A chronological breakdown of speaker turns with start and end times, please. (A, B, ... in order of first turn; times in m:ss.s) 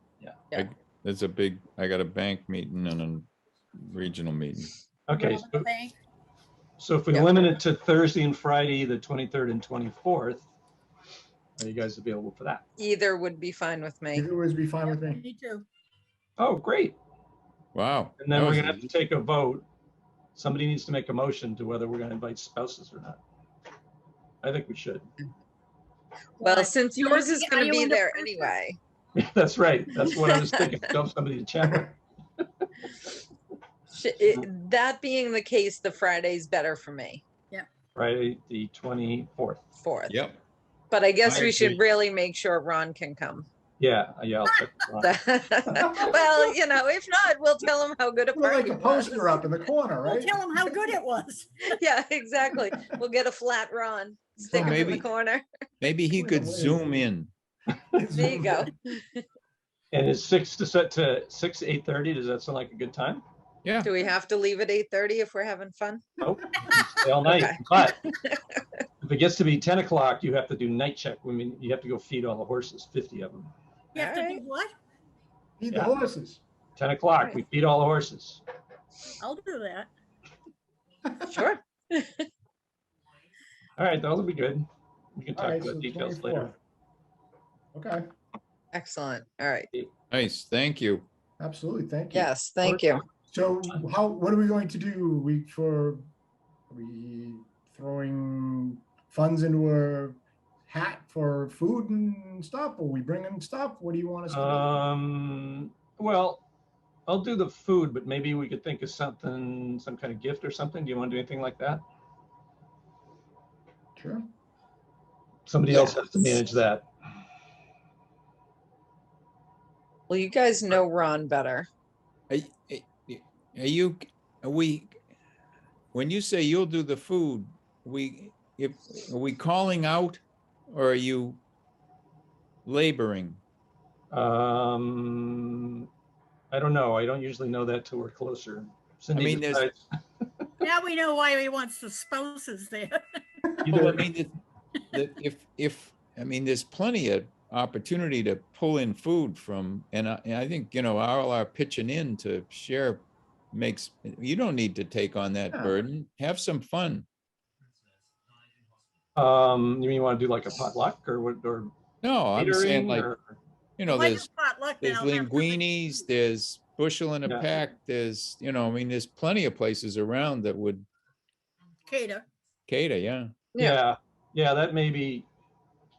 0:00.5-0:04.7 A
0:05.1-0:05.7 B
0:05.1-0:05.9 C
0:06.8-0:10.5 B
0:11.6-0:12.6 B
0:12.8-0:14.3 D
0:14.1-0:15.2 E
0:14.8-0:15.6 C
0:16.4-0:17.0 B
0:17.7-0:18.9 A
0:18.2-0:19.6 B
0:20.4-0:23.2 B
0:24.4-0:25.1 B
0:26.4-0:28.5 C
0:26.4-0:28.8 D
0:29.1-0:32.0 B
0:31.6-0:31.9 E
0:33.9-0:37.2 D
0:37.9-0:39.6 B
0:39.8-0:40.2 D
0:40.1-0:40.4 A
0:40.9-0:43.5 D
0:41.2-0:41.8 B
0:43.8-0:45.2 B
0:45.0-0:49.4 D
0:45.7-0:46.2 E
0:48.3-0:51.0 E
0:50.0-0:51.6 C
0:51.6-0:55.4 D
0:54.4-0:55.0 E
0:54.5-0:55.1 A
0:55.8-0:57.3 A
0:56.1-0:57.0 E
0:57.9-0:58.7 E
0:58.1-0:59.2 D
0:59.9-1:03.2 B
1:03.6-1:03.9 A
1:03.8-1:06.0 D
1:06.2-1:08.0 B
1:07.2-1:08.4 D
1:09.0-1:13.5 B
1:13.9-1:14.7 C
1:14.0-1:14.4 D
1:15.6-1:16.4 E
1:16.8-1:18.4 B
1:19.2-1:19.9 C
1:21.3-1:22.2 D
1:23.8-1:26.5 B
1:25.4-1:26.5 E
1:27.7-1:28.0 E
1:28.7-1:29.7 D
1:30.1-1:31.0 A
1:31.4-1:32.3 E
1:32.1-1:33.0 D
1:33.3-1:36.0 E
1:36.7-1:44.8 E
1:44.3-1:46.4 B
1:47.1-1:51.8 B
1:54.0-1:54.2 E
1:55.5-1:56.8 B
1:55.7-1:56.4 D
2:00.1-2:01.7 D
2:02.3-2:04.9 A
2:05.9-2:11.4 A
2:12.6-2:13.4 A
2:14.1-2:15.9 B
2:16.5-2:19.8 B
2:19.1-2:19.7 A
2:20.6-2:23.0 C
2:23.6-2:24.0 B
2:23.7-2:24.3 A
2:24.9-2:37.0 A
2:39.2-2:41.7 B
2:42.0-2:43.1 A
2:42.3-2:43.4 B
2:43.8-2:44.3 A
2:43.9-2:45.6 C
2:44.8-2:50.8 A
2:47.2-2:47.5 B
2:51.9-2:52.2 C
2:52.7-2:53.3 A
2:53.5-2:53.8 D
2:53.6-2:55.3 B